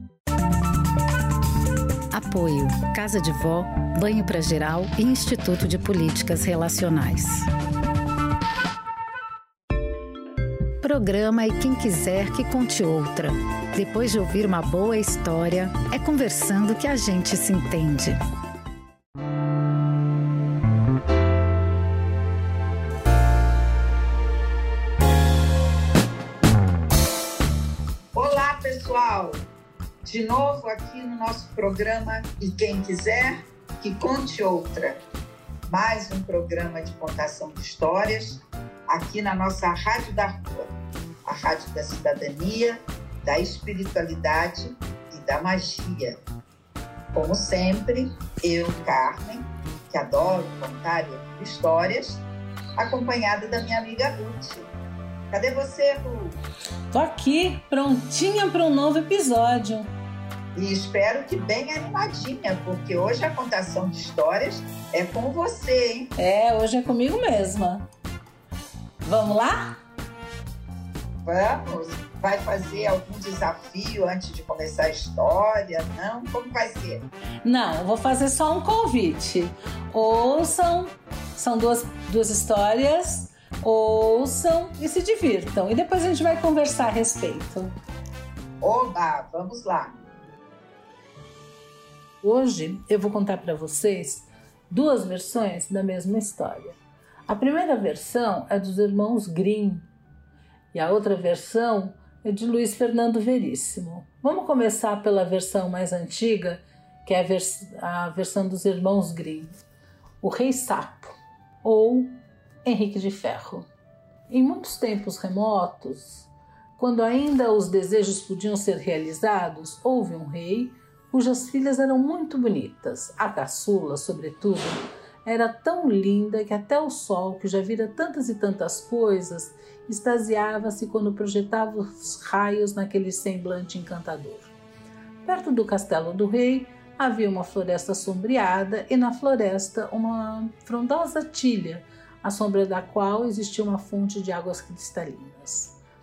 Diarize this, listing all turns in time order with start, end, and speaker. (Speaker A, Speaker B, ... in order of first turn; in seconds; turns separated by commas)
Speaker A: 2.1-7.5, Speaker A: 10.8-18.2, Speaker B: 28.1-29.4, Speaker B: 30.0-35.0, Speaker B: 35.7-46.2, Speaker B: 47.1-52.2, Speaker B: 52.8-54.7, Speaker B: 55.3-56.4, Speaker C: 56.9-59.9, Speaker B: 60.5-66.1, Speaker C: 66.2-67.9, Speaker C: 69.0-69.8, Speaker B: 71.2-77.1, Speaker C: 77.4-87.7, Speaker B: 88.6-90.1, Speaker C: 92.2-96.8, Speaker C: 97.3-99.9, Speaker C: 100.7-109.5, Speaker C: 110.2-113.7, Speaker C: 114.3-134.5, Speaker C: 135.2-145.8